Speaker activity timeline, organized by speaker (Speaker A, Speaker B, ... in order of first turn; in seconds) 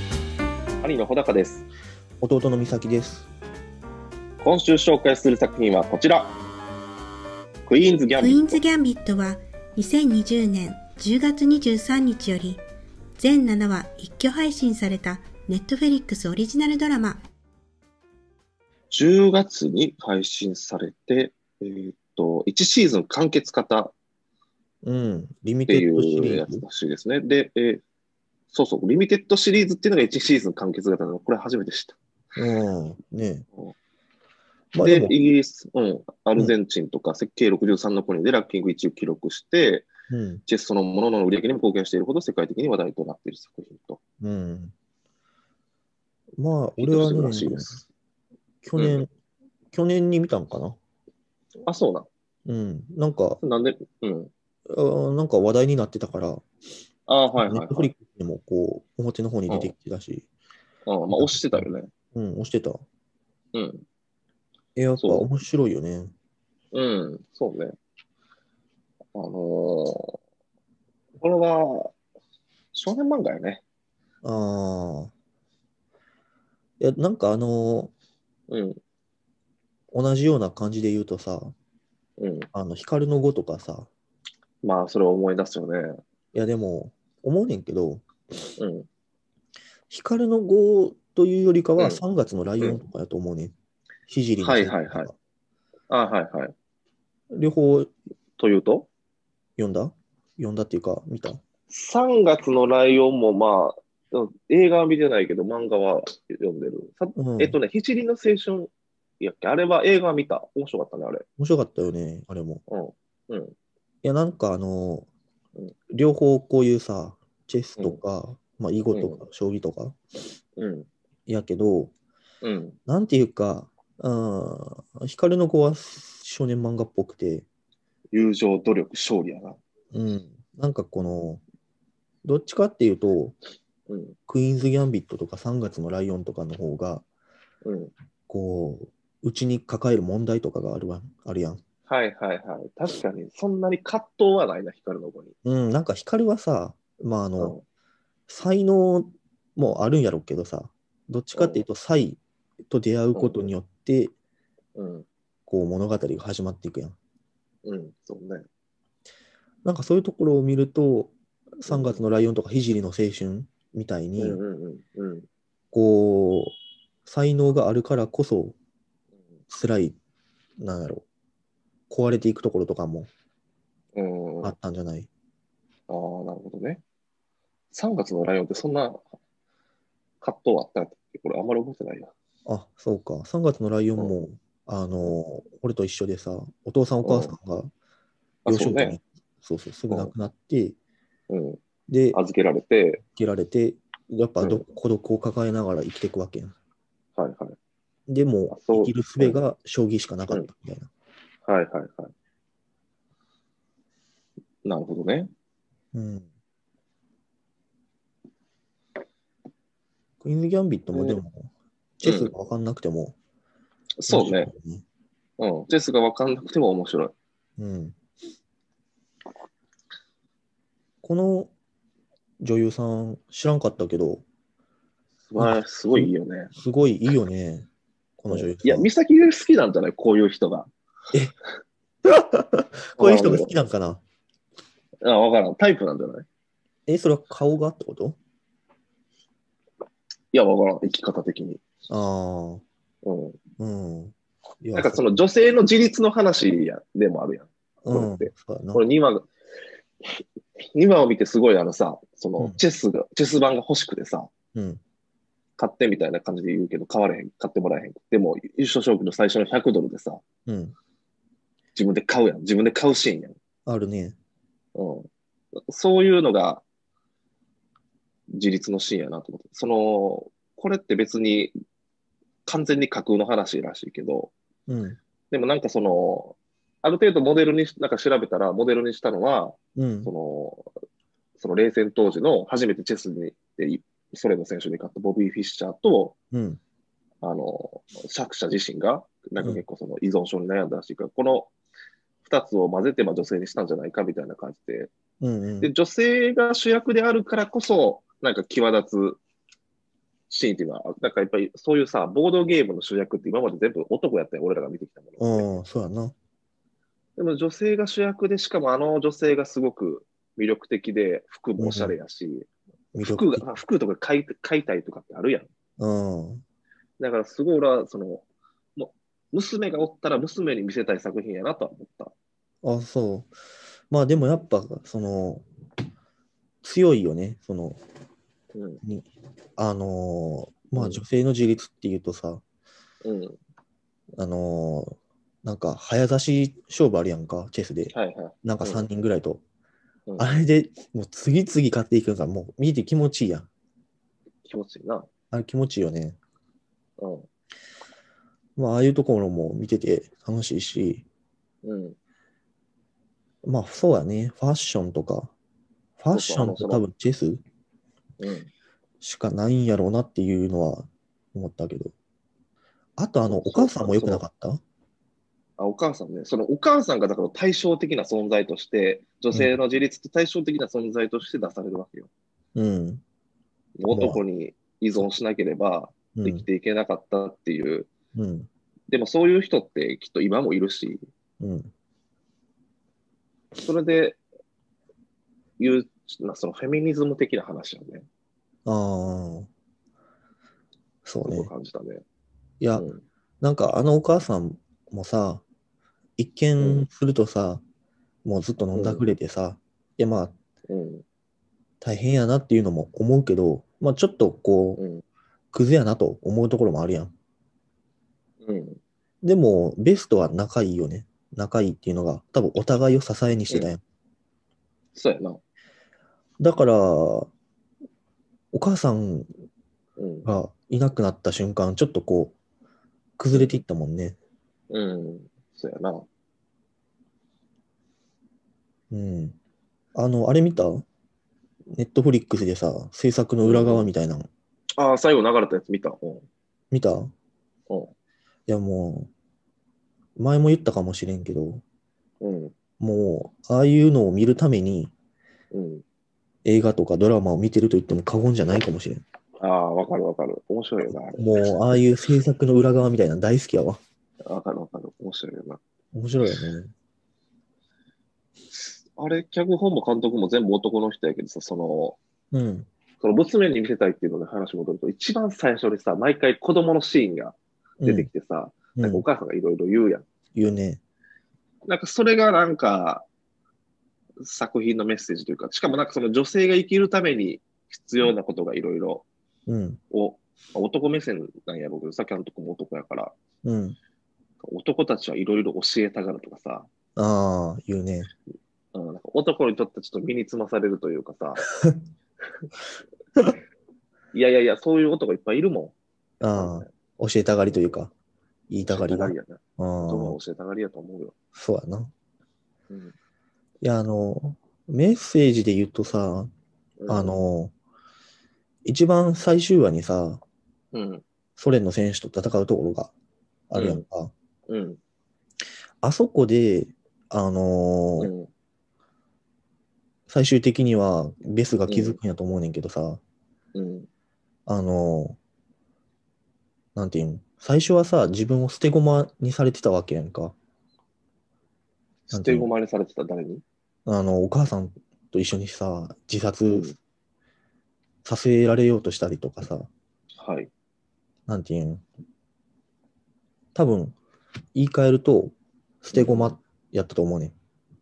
Speaker A: 0.8-1.6, 4.4-6.3, 7.7-8.6, 18.9-23.9, 25.7-27.8, 28.5-32.0, 34.8-39.9, 40.5-44.0, 46.8-47.9, 48.8-49.0, 51.6-52.1, 53.4-54.3, 57.1-57.9, 60.9-61.9, 63.5-63.8, 65.0-65.3, 66.7-67.7, 69.1-70.2, 71.2-71.9, 72.7-73.6, 78.5-78.8, 82.2-82.5, 84.6-86.0, 88.6-88.9, 94.4-95.1, 95.9-96.5, 98.4-98.9, 101.7-111.2, 112.7-113.5, 118.9-119.2, 120.6-120.9, 122.4-122.8, 128.1-129.6, 133.9-134.2, 137.6-137.9, 141.9-145.3, 151.3-151.6, 153.2-153.5, 154.8-155.1, 157.6-158.4, 161.7-162.0, 164.2-165.2, 173.9-174.5, 175.9-176.8, 177.7-179.0, 180.2-182.1, 187.0-187.3, 188.4-189.0, 191.3-191.6, 192.1-193.0, 197.2-197.6, 198.5-199.4, 201.4-202.1, 204.6-205.3, 210.9-211.2, 212.0-212.3, 214.0-214.5, 215.4-217.1, 225.3-226.5, 228.3-230.7, 233.0-233.6, 235.0-236.2, 240.3-241.6, 243.0-243.4, 244.7-249.3, 250.7-254.3, 255.6-260.2, 261.7-263.4, 264.7-265.1, 265.7-266.6, 268.3-271.5, 272.4-274.3, 275.3-280.7, 281.4-286.1, 287.2-291.5, 292.2-294.9, 295.6-299.2, 300.3-305.5, 307.2-312.5, 313.0-315.5, 317.0-318.2, 318.8-322.1, 328.5-328.8, 330.8-331.0, 333.0-333.4, 337.9-338.9, 340.1-340.4, 344.4-345.1, 347.0-347.3, 351.6-351.9, 356.1-356.8, 358.2-358.5, 363.3-364.2, 365.6-372.1, 373.8-377.9, 378.9-381.0, 383.6-384.2, 385.6-388.1, 391.2-392.0, 392.8-393.0, 396.6-396.9, 398.7-399.1, 400.7-401.0, 404.8-405.0, 408.4-408.8, 414.9-415.4, 420.0-420.3, 423.3-423.6, 424.7-426.1, 433.4-433.9, 434.7-436.2, 442.2-442.5, 445.5-445.8, 449.4-451.8, 454.2-455.6, 458.9-462.0, 463.0-470.0, 471.7-473.0, 474.2-479.1, 479.9-483.1, 484.4-486.7, 488.7-491.4, 494.1-495.8, 496.3-496.7, 497.4-497.8, 498.7-501.1, 506.8-507.2, 510.7-511.0, 513.5-513.8, 514.5-514.8, 518.0-518.3, 521.7-522.0, 523.5-523.9, 532.1-533.4, 536.5-536.8, 540.2-540.5, 545.9-546.4
Speaker B: 2.2-3.3, 24.8-26.6, 32.4-33.5, 34.7-35.1, 40.1-40.4, 44.2-44.7, 46.4-47.8, 48.6-49.1, 49.7-50.8, 52.5-53.4, 54.7-56.5, 57.3-60.3, 61.1-62.8, 64.8-66.1, 74.2-75.1, 76.8-77.9, 79.9-81.5, 82.5-83.9, 86.3-88.0, 89.9-93.5, 94.1-95.1, 97.3-97.9, 99.6-101.4, 107.2-107.6, 111.4-112.6, 114.0-115.1, 115.9-120.0, 121.3-121.9, 122.9-127.5, 129.9-131.4, 132.2-133.3, 134.3-137.1, 138.3-141.6, 145.4-147.6, 148.3-154.1, 155.5-157.0, 159.6-164.4, 165.7-168.6, 169.5-170.0, 170.6-171.1, 171.9-173.1, 174.4-175.1, 182.4-187.7, 188.4-190.8, 191.9-192.2, 193.0-196.6, 198.1-200.9, 205.9-206.3, 210.2-213.2, 214.1-214.8, 217.6-218.0, 221.0-221.5, 222.4-224.2, 225.4-227.7, 228.2-228.9, 232.0-234.0, 236.9-238.2, 241.9-242.6, 243.6-245.1, 247.8-248.8, 254.5-254.8, 260.5-260.7, 263.6-264.2, 274.7-275.0, 279.8-280.1, 286.3-286.6, 295.2-295.7, 305.2-306.1, 311.6-312.0, 312.9-313.5, 315.8-316.4, 322.6-323.3, 323.9-325.4, 326.6-327.8, 328.8-332.4, 334.2-339.4, 340.2-343.5, 345.3-346.2, 348.6-351.1, 353.4-355.3, 356.0-357.4, 359.0-361.9, 363.0-364.6, 372.5-373.0, 373.9-374.2, 376.1-376.4, 378.1-378.5, 381.4-381.7, 388.6-389.5, 391.0-391.5, 392.6-392.9, 393.4-395.4, 396.2-397.6, 398.2-400.3, 401.8-404.8, 405.5-407.1, 409.2-413.8, 416.4-417.3, 418.5-419.3, 420.2-422.4, 423.2-424.2, 428.9-429.4, 429.9-430.9, 431.7-434.3, 436.7-437.1, 438.5-439.1, 440.2-441.6, 442.8-444.9, 446.4-449.0, 451.1-453.8, 455.9-456.7, 462.3-462.7, 467.8-468.1, 468.7-469.0, 470.3-470.8, 479.5-479.8, 483.4-483.8, 486.9-488.1, 496.2-497.9, 498.5-500.2, 501.4-501.9, 503.6-506.3, 506.9-507.5, 508.6-510.2, 511.4-512.9, 513.5-514.1, 515.8-518.1, 520.1-523.0, 524.5-525.2, 526.7-530.4, 532.1-532.5, 533.9-536.7, 538.0-539.7, 541.3-541.8, 543.5-544.0, 544.5-547.3
Speaker C: 8.1-12.6, 13.2-17.2